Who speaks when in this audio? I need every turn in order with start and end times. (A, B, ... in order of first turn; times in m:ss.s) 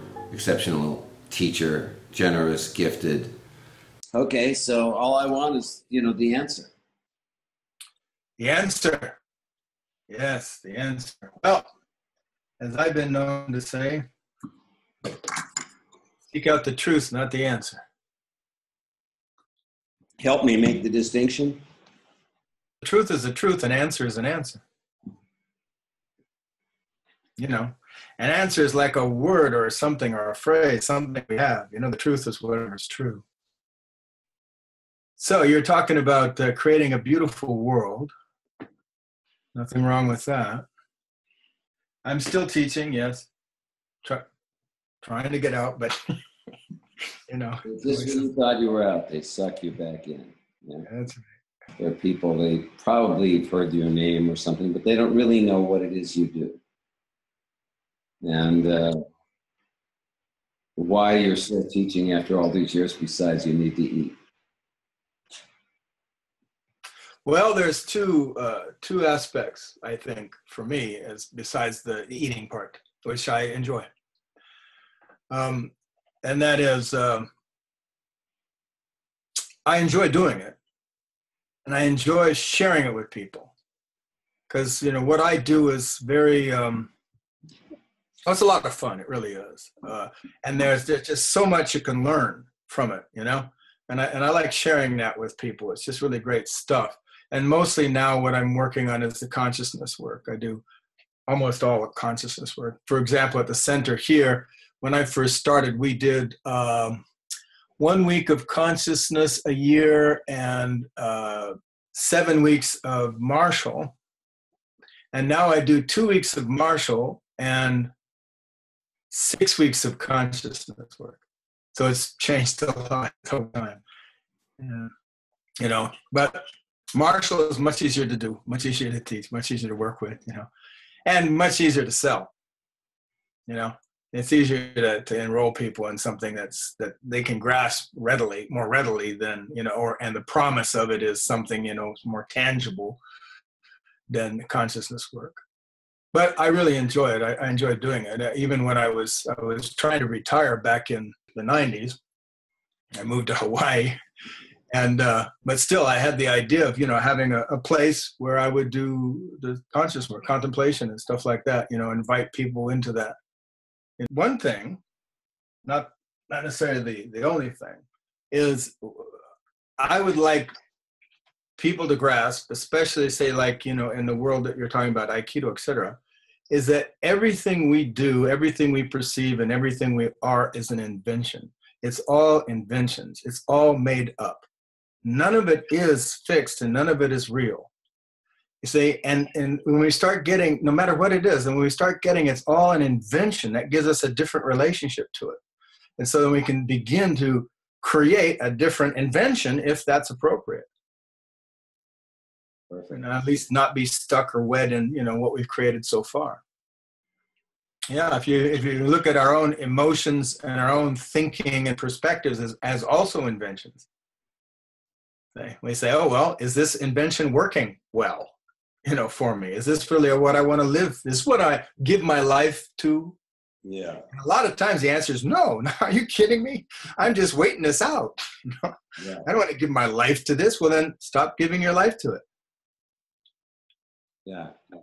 0:00.3-0:03.4 A
0:04.1-0:06.7 A
0:08.4-0:09.2 B
0:10.1-0:11.7 B
0:12.6-0:14.0 B
0:16.3-0:17.8 B
0:20.2-0:21.6 A
0:22.8-0:24.6 B
0:27.4-0:33.2 B
0:35.2-0:38.1 B
0:39.5-0:40.7 B
0:42.0-0:43.3 B
0:45.0-0:46.0 B
0:47.3-0:48.3 B
0:47.6-0:50.9 A
0:50.9-0:51.4 B
0:51.8-0:56.6 A
0:58.2-0:59.0 A
1:00.8-1:04.1 A
1:07.2-1:13.9 B
1:15.3-1:15.7 B
1:16.2-1:17.3 B
1:19.6-1:20.6 B
1:21.6-1:23.5 B
1:24.5-1:26.9 B
1:28.3-1:40.6 B
1:41.3-1:47.0 B
1:47.8-1:54.0 B
1:55.1-1:57.9 B
1:59.1-2:01.2 B
2:01.7-2:03.8 B
2:04.6-2:04.9 B
2:05.6-2:06.4 B
2:06.9-2:10.5 B
2:11.1-2:12.3 B
2:13.5-2:23.0 B
2:24.1-2:25.4 B
2:26.1-2:32.0 B
2:32.9-2:34.0 B
2:34.7-2:43.2 B
2:44.0-2:44.8 B
2:45.6-2:49.2 B
2:49.8-2:50.5 B
2:51.6-3:04.5 B
3:05.0-3:07.7 B
3:08.6-3:15.4 B
3:16.0-3:20.7 B
3:22.7-3:23.0 A
3:22.9-3:26.4 B
3:27.9-3:33.9 B
3:35.4-3:38.3 B
3:38.9-3:43.2 B
3:43.6-3:44.1 A
3:44.1-3:52.2 B
3:49.0-3:49.3 A
3:54.3-3:54.5 A